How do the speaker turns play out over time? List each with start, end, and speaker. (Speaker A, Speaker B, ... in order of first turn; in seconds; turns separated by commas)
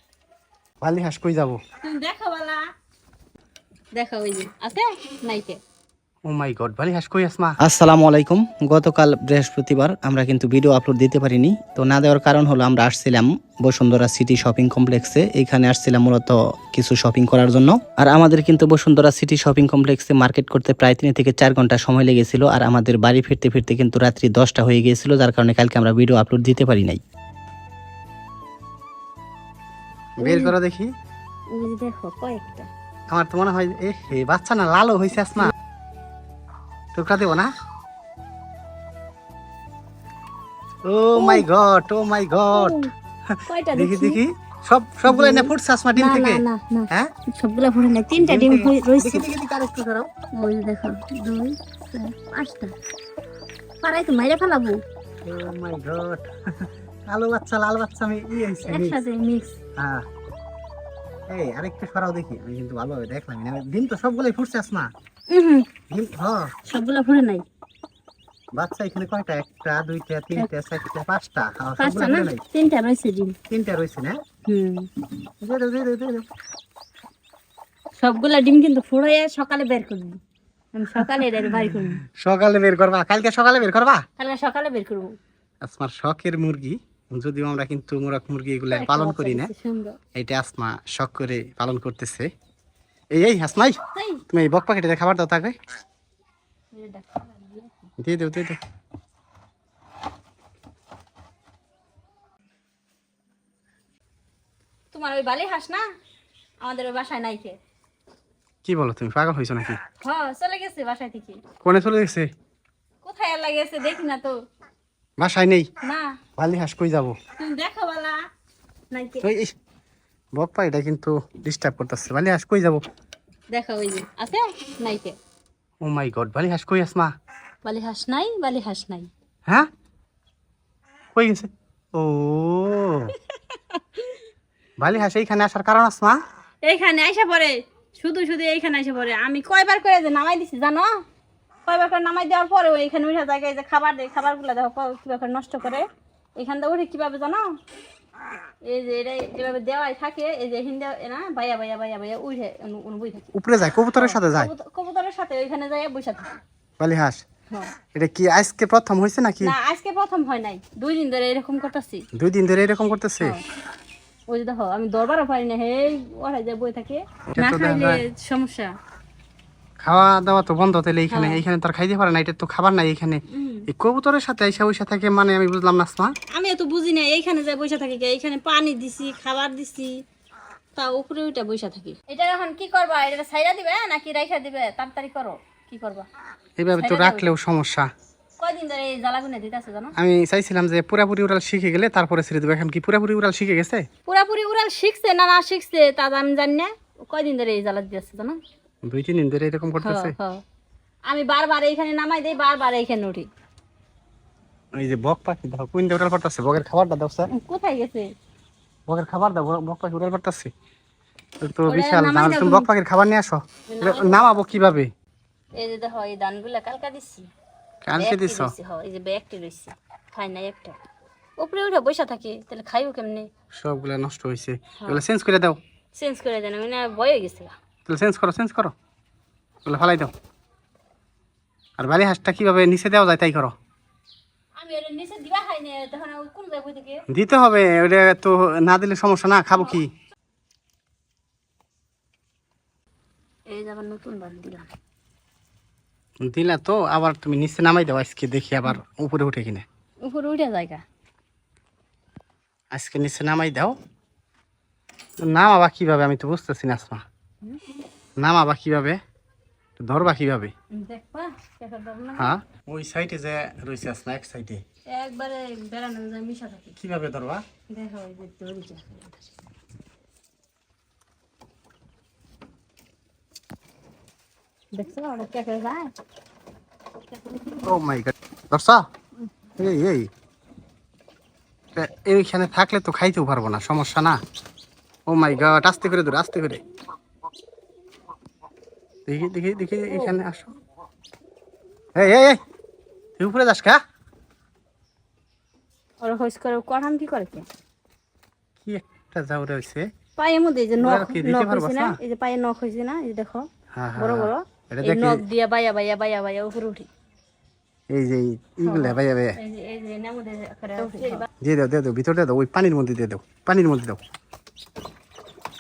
Speaker A: 0.8-1.6, Speaker B: 1.8-2.6, Speaker B: 3.9-5.6, Speaker A: 6.2-7.6, Speaker C: 7.6-27.0, Speaker B: 30.2-30.5, Speaker A: 30.2-30.9, Speaker B: 31.5-32.7, Speaker A: 33.1-35.5, Speaker A: 37.0-37.5, Speaker A: 40.9-47.1, Speaker B: 41.1-41.5, Speaker B: 42.5-42.9, Speaker B: 43.5-44.2, Speaker B: 45.1-49.3, Speaker A: 48.2-50.1, Speaker B: 50.3-52.7, Speaker B: 53.8-54.8, Speaker A: 55.3-59.0, Speaker B: 58.7-59.6, Speaker A: 59.8-60.0, Speaker A: 61.3-64.9, Speaker B: 65.3-65.7, Speaker A: 65.9-66.5, Speaker B: 66.7-67.4, Speaker A: 68.6-72.4, Speaker B: 71.8-73.3, Speaker A: 73.5-74.1, Speaker B: 74.5-74.9, Speaker A: 75.4-76.2, Speaker B: 78.0-80.2, Speaker B: 80.8-82.0, Speaker A: 81.7-84.0, Speaker B: 84.2-85.1, Speaker A: 85.6-89.5, Speaker B: 88.7-90.0, Speaker A: 90.2-92.3, Speaker A: 93.1-93.8, Speaker B: 93.9-94.2, Speaker A: 94.3-95.6, Speaker B: 96.7-97.9, Speaker A: 98.0-98.6, Speaker B: 104.9-105.8, Speaker B: 106.6-107.6, Speaker A: 108.7-109.8, Speaker B: 110.0-111.4, Speaker A: 111.6-112.3, Speaker B: 113.0-114.3, Speaker A: 115.2-115.7, Speaker B: 115.8-116.2, Speaker A: 116.4-117.2, Speaker B: 117.4-118.2, Speaker B: 118.9-119.3, Speaker A: 119.2-119.5, Speaker A: 120.3-122.8, Speaker B: 123.5-125.2, Speaker A: 125.8-127.1, Speaker B: 127.6-129.1, Speaker A: 131.2-133.1, Speaker B: 133.5-134.2, Speaker A: 134.8-136.2, Speaker B: 136.7-140.9, Speaker B: 141.7-145.8, Speaker B: 146.4-147.5, Speaker B: 148.7-153.3, Speaker A: 153.3-154.5, Speaker B: 154.0-156.3, Speaker A: 156.8-157.2, Speaker A: 157.9-159.6, Speaker B: 159.4-162.0, Speaker A: 162.2-163.3, Speaker B: 164.3-168.7, Speaker A: 167.3-168.0, Speaker A: 169.8-176.1, Speaker B: 171.1-171.4, Speaker B: 173.3-173.7, Speaker B: 176.3-179.9, Speaker B: 180.8-186.1, Speaker A: 186.6-187.9, Speaker B: 186.8-187.4, Speaker B: 188.4-189.9, Speaker A: 190.0-193.8, Speaker B: 194.1-198.4, Speaker A: 198.8-200.2, Speaker B: 199.8-200.4, Speaker B: 201.1-203.3, Speaker A: 204.8-207.3, Speaker B: 207.3-208.1, Speaker A: 208.9-210.5, Speaker A: 211.4-214.9, Speaker B: 211.7-212.7, Speaker B: 213.7-214.3, Speaker B: 215.6-217.3, Speaker A: 217.8-218.6, Speaker B: 218.0-220.8, Speaker B: 221.4-223.3, Speaker A: 223.5-225.6, Speaker B: 224.8-225.0, Speaker B: 225.9-227.5, Speaker A: 227.9-228.7, Speaker A: 229.7-230.1, Speaker A: 231.8-233.5, Speaker B: 234.6-237.0, Speaker A: 237.1-239.9, Speaker B: 243.5-244.7, Speaker A: 246.2-249.7, Speaker B: 250.0-250.8, Speaker A: 252.7-253.8, Speaker A: 255.2-257.0, Speaker A: 258.2-259.0, Speaker A: 259.8-260.5, Speaker B: 260.7-262.3, Speaker A: 262.2-264.6, Speaker B: 264.9-266.7, Speaker A: 266.8-267.4, Speaker B: 267.7-269.3, Speaker B: 274.7-275.9, Speaker A: 277.6-278.8, Speaker A: 279.6-280.1, Speaker A: 281.8-284.2, Speaker A: 285.1-286.6, Speaker A: 289.1-290.5, Speaker B: 289.9-290.2, Speaker A: 291.9-292.4, Speaker A: 293.2-293.8, Speaker B: 296.0-297.4, Speaker A: 298.6-299.9, Speaker B: 300.2-303.5, Speaker A: 300.8-302.0, Speaker A: 303.7-305.2, Speaker B: 304.0-306.9, Speaker A: 307.9-309.4, Speaker B: 308.6-311.3, Speaker A: 311.4-314.0